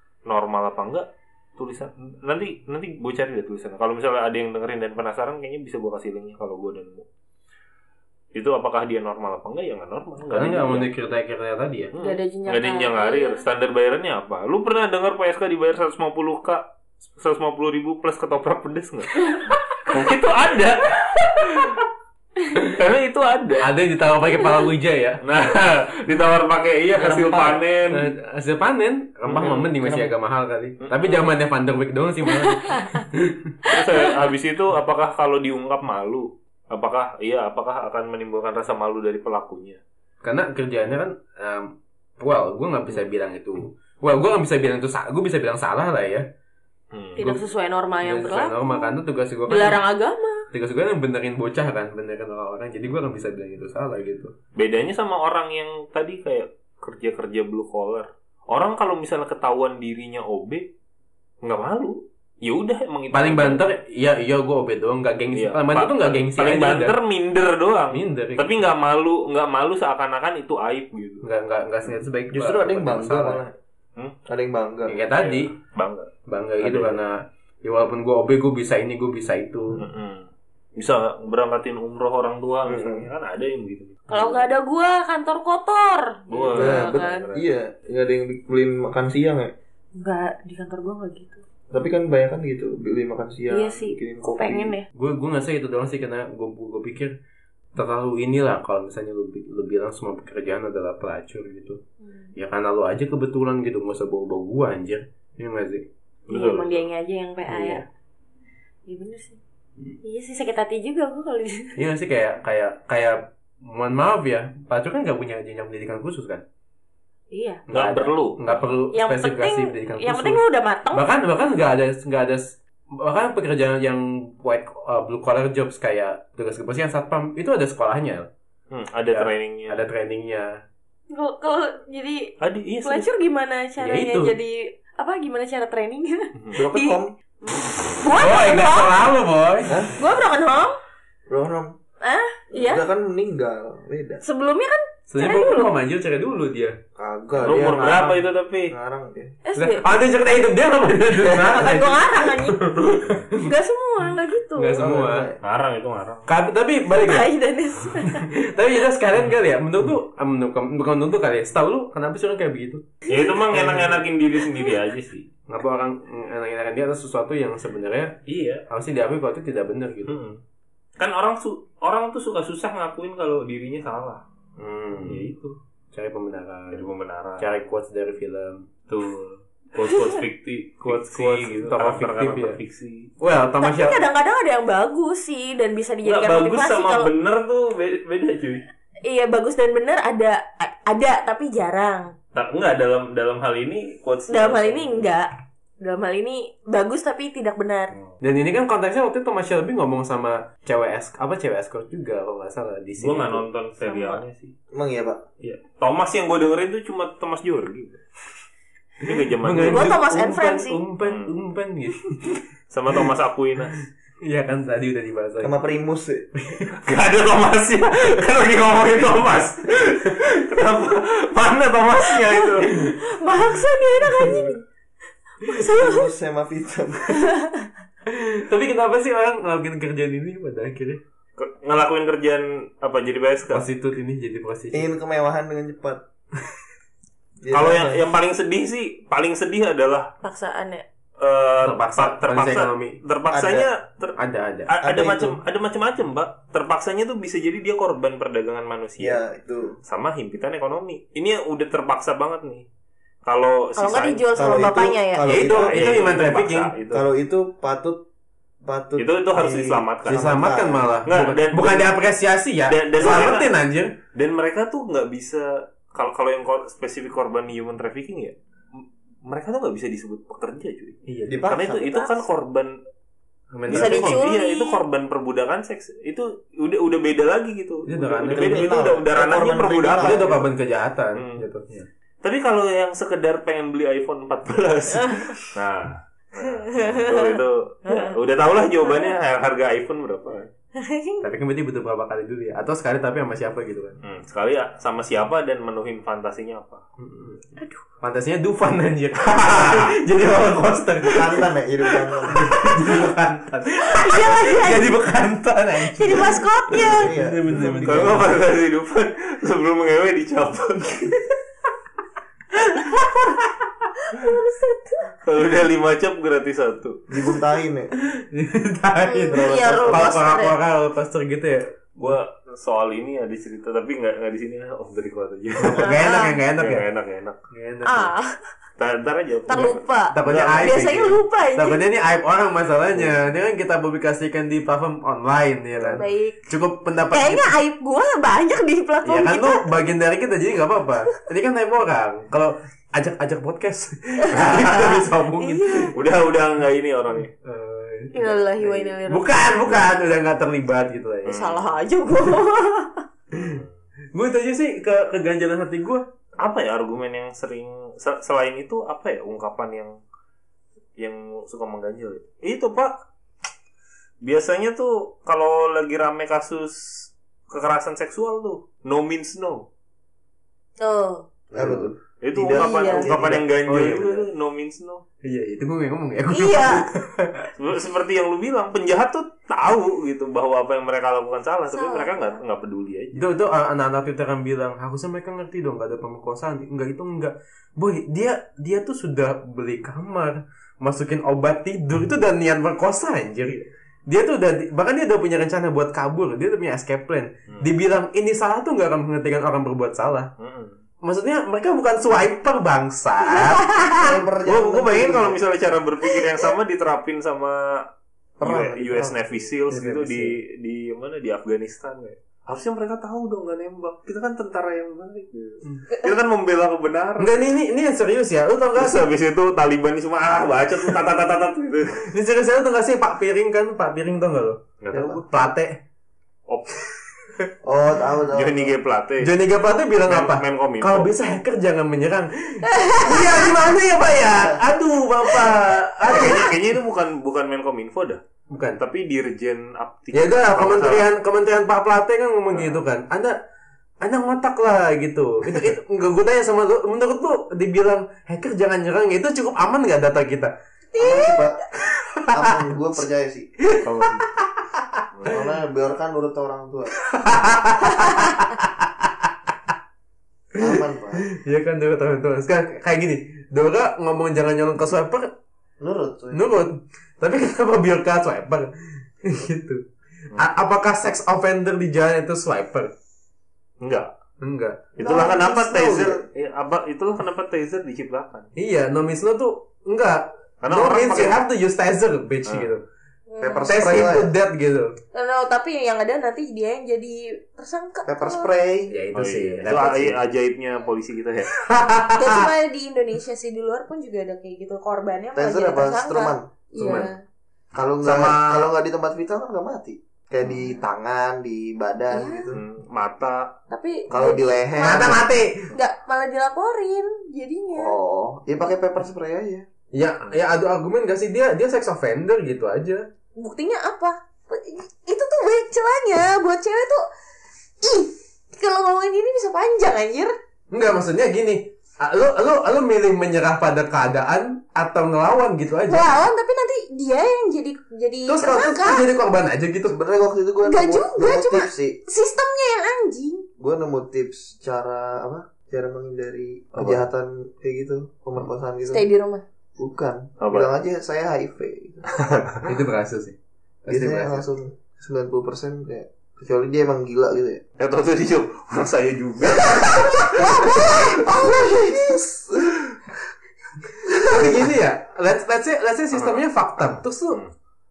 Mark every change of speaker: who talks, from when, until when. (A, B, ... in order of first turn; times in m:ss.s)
0:00.3-0:07.1 A
0:08.3-0:10.9 A
0:10.3-0:11.9 B
0:11.9-0:16.6 A
0:12.0-0:13.4 C
0:17.2-0:21.8 A
0:22.6-0:23.7 A
0:23.6-0:25.2 B
0:25.2-0:28.1 A
0:27.0-0:33.6 B
0:29.3-0:30.1 A
0:30.8-0:31.3 A
0:32.4-0:33.0 C
0:33.7-0:39.8 A
0:40.2-0:46.3 B
0:46.9-0:47.2 A
0:47.2-0:48.9 C
0:47.2-0:47.4 B
0:48.0-0:49.8 B
0:49.5-0:50.4 C
0:50.5-0:54.3 B
0:54.6-1:00.7 A
1:01.4-1:03.6 A
1:03.1-1:07.0 B
1:05.3-1:11.2 A
1:07.9-1:08.6 B
1:11.2-1:13.4 B
1:12.3-1:13.5 D
1:14.3-1:15.0 D
1:14.9-1:15.5 B
1:15.1-1:17.0 A
1:16.3-1:19.8 B
1:19.8-1:24.5 A
1:22.7-1:23.1 D
1:24.1-1:27.3 C
1:26.3-1:27.5 A
1:26.5-1:29.5 D
1:30.0-1:31.4 C
1:31.7-1:34.8 D
1:33.5-1:34.9 C
1:34.9-1:37.2 B
1:37.8-1:41.8 B
1:42.0-1:42.3 C
1:42.4-1:45.9 B
1:46.3-1:46.8 A
1:46.3-1:47.9 C
1:47.5-1:47.8 B
1:48.9-1:49.4 C
1:50.0-1:51.8 C
1:51.8-1:56.4 B
1:57.3-1:57.6 C
1:57.7-2:08.3 B
1:57.7-1:58.5 A
1:58.9-2:01.0 C
2:08.7-2:09.8 A
2:09.1-2:10.6 B
2:11.1-2:12.3 C
2:12.4-2:13.1 A
2:12.8-2:17.0 C
2:13.8-2:14.4 B
2:16.3-2:16.6 A
2:16.6-2:17.1 D
2:17.9-2:19.0 C
2:18.2-2:19.9 B
2:19.7-2:19.9 D
2:20.0-2:20.8 C
2:21.3-2:21.8 D
2:22.0-2:22.8 C
2:22.5-2:24.2 D
2:24.2-2:25.7 C
2:25.1-2:26.8 B
2:27.0-2:29.4 D
2:27.4-2:28.7 A
2:29.4-2:30.0 C
2:29.6-2:33.5 B
2:31.2-2:32.6 C
2:33.4-2:34.8 C
2:34.6-2:35.3 B
2:34.8-2:35.4 D
2:35.4-2:36.3 A
2:36.3-2:37.3 B
2:36.9-2:38.3 C
2:38.1-2:42.9 B
2:43.1-2:43.4 C
2:43.1-2:45.3 A
2:43.5-2:43.8 B
2:45.5-2:50.2 B
2:48.3-2:48.6 A
2:50.1-2:50.4 A
2:51.0-2:54.2 A
2:54.6-2:55.3 B
2:55.0-2:55.6 A
2:55.9-2:58.7 B
2:56.7-2:57.5 A
2:58.9-3:03.1 A
2:59.8-3:00.2 C
3:00.8-3:02.6 B
3:03.2-3:04.0 B
3:03.6-3:07.1 C
3:06.0-3:08.6 A
3:09.0-3:12.1 C
3:12.3-3:15.1 A
3:14.3-3:15.3 C
3:15.8-3:17.9 C
3:17.9-3:18.2 A
3:18.2-3:23.5 B
3:23.0-3:24.5 A
3:23.8-3:24.2 C
3:24.7-3:25.2 D
3:25.4-3:28.0 A
3:29.0-3:29.9 A
3:29.1-3:32.4 B
3:29.6-3:30.8 C
3:31.0-3:31.3 A
3:32.7-3:33.8 A
3:34.2-3:35.6 B
3:35.4-3:36.3 D
3:36.4-3:36.8 B
3:36.8-3:42.9 A
3:42.2-3:44.6 C
3:42.6-3:43.0 B
3:44.2-3:44.5 D
3:45.4-3:46.1 C
3:45.5-3:47.3 D
3:47.2-3:47.7 C
3:48.1-3:51.0 B
3:51.4-3:53.6 A
3:53.5-3:54.9 B
3:54.7-3:56.0 D
3:57.4-3:58.0 D
3:57.5-4:00.1 A
4:00.2-4:00.8 C
4:01.2-4:04.2 A
4:01.6-4:03.0 B
4:03.3-4:03.7 D
4:04.2-4:04.8 B
4:04.7-4:09.2 A
4:04.8-4:05.4 D
4:09.0-4:09.8 D
4:09.9-4:12.6 A
4:13.3-4:14.8 A
4:13.8-4:15.3 C
4:14.4-4:15.9 D
4:15.3-4:16.8 B
4:15.3-4:17.1 A
4:16.9-4:18.0 D
4:18.6-4:20.9 D
4:19.0-4:20.4 A
4:20.1-4:24.0 B
4:21.1-4:22.0 A
4:22.7-4:23.5 A
4:24.1-4:32.8 A
4:31.1-4:31.5 B
4:31.3-4:32.2 D
4:33.5-4:34.2 B
4:33.7-4:40.4 A
4:33.7-4:34.8 C
4:37.9-4:38.8 B
4:38.2-4:40.4 D
4:40.0-4:41.9 B
4:41.2-4:41.4 A
4:42.2-4:50.5 A
4:45.0-4:45.4 C
4:46.5-4:48.2 C
4:50.8-4:51.2 C
4:51.2-4:54.0 B
4:54.0-4:56.8 A
4:57.0-4:57.5 B
4:58.0-5:01.5 B
4:59.2-5:00.0 A
5:01.1-5:02.8 D
5:02.1-5:08.4 B
5:03.9-5:04.9 C
5:05.8-5:07.1 C
5:06.9-5:08.2 D
5:07.5-5:11.4 A
5:12.7-5:13.4 B
5:14.0-5:15.1 C
5:15.2-5:17.0 A
5:17.1-5:17.9 D
5:18.0-5:22.2 B
5:19.0-5:20.6 C
5:19.3-5:20.1 D
5:22.0-5:26.0 A
5:25.6-5:26.8 B
5:25.8-5:26.4 C
5:26.6-5:27.4 A
5:27.5-5:28.1 B
5:27.8-5:28.4 C
5:28.8-5:31.2 A
5:29.5-5:31.8 C
5:30.1-5:37.5 B
5:35.9-5:36.4 C
5:37.1-5:39.7 C
5:39.0-5:45.9 B
5:44.2-5:45.9 C
5:44.3-5:45.0 A
5:45.9-5:47.3 A
5:47.4-5:51.5 B
5:48.1-5:49.4 C
5:51.2-5:51.7 A
5:51.3-5:53.0 C
5:53.3-5:53.6 B
5:53.3-5:53.7 A
5:54.1-5:56.1 B
5:56.4-6:00.0 A
6:01.0-6:02.9 A
6:04.2-6:09.7 A
6:10.8-6:11.2 C
6:11.5-6:11.9 B
6:11.6-6:13.5 D
6:12.2-6:15.0 A
6:12.5-6:13.1 C
6:13.7-6:14.3 B
6:15.2-6:17.5 B
6:16.3-6:16.8 C
6:17.6-6:23.3 A
6:21.7-6:22.4 C
6:23.1-6:40.3 B
6:40.4-6:40.8 A
6:41.0-6:44.2 B
6:43.3-6:43.7 C
6:43.9-6:45.4 D
6:44.4-6:47.8 A
6:48.4-6:49.3 D
6:48.4-6:57.4 A
6:49.7-6:50.4 B
6:57.2-6:59.1 B
6:58.7-7:02.1 A
7:02.0-7:04.6 B
7:04.8-7:05.3 A
7:04.9-7:05.3 D
7:05.3-7:05.8 B
7:06.5-7:06.8 A
7:07.6-7:08.8 D
7:08.3-7:09.3 A
7:09.2-7:16.6 B
7:10.1-7:11.1 A
7:12.6-7:13.5 C
7:16.0-7:18.2 A
7:18.5-7:18.8 B
7:18.8-7:21.1 A
7:20.1-7:23.4 B
7:22.5-7:22.8 A
7:24.0-7:30.5 B
7:30.9-7:31.6 C
7:31.0-7:31.6 D
7:31.8-7:32.7 B
7:32.3-7:33.5 D
7:33.6-7:35.0 B
7:33.8-7:34.3 A
7:35.1-7:35.4 A
7:35.2-7:37.0 D
7:37.0-7:39.5 B
7:40.6-7:41.2 D
7:40.6-7:45.3 B
7:45.8-7:46.5 D
7:46.3-7:48.7 B
7:49.2-7:49.8 B
7:50.4-7:52.9 B
7:53.8-7:54.1 A
7:54.4-7:54.9 B
7:55.0-7:58.5 A
7:55.0-7:56.2 D
7:58.6-8:02.8 B
8:00.6-8:01.4 A
8:02.5-8:02.7 A
8:03.3-8:03.8 C
8:03.4-8:04.3 D
8:03.7-8:05.0 B
8:03.8-8:04.2 A
8:05.1-8:08.5 C
8:08.1-8:09.0 D
8:08.9-8:10.2 B
8:09.2-8:11.6 A
8:11.5-8:12.5 B
8:12.2-8:17.2 C
8:15.4-8:17.0 D
8:16.8-8:17.1 B
8:17.7-8:22.6 D
8:18.0-8:18.7 B
8:22.1-8:22.5 C
8:22.5-8:23.5 A
8:23.7-8:25.2 C
8:24.1-8:25.2 D
8:24.8-8:25.7 B
8:25.7-8:28.0 C
8:27.8-8:29.7 D
8:29.9-8:33.0 B
8:33.4-8:37.0 C
8:37.8-8:40.3 C
8:40.7-8:46.2 B
8:45.9-8:49.1 C
8:48.3-8:50.0 B
8:49.9-8:52.0 D
8:50.6-8:53.5 C
8:53.6-8:59.1 D
8:56.8-8:57.0 A
8:58.9-8:59.4 C
8:59.8-9:02.1 D
9:00.4-9:00.7 A
9:02.1-9:02.6 A
9:02.6-9:04.5 B
9:03.9-9:07.6 D
9:07.8-9:11.0 A
9:10.3-9:12.2 C
9:10.3-9:12.9 D
9:14.2-9:17.4 B
9:16.1-9:17.5 A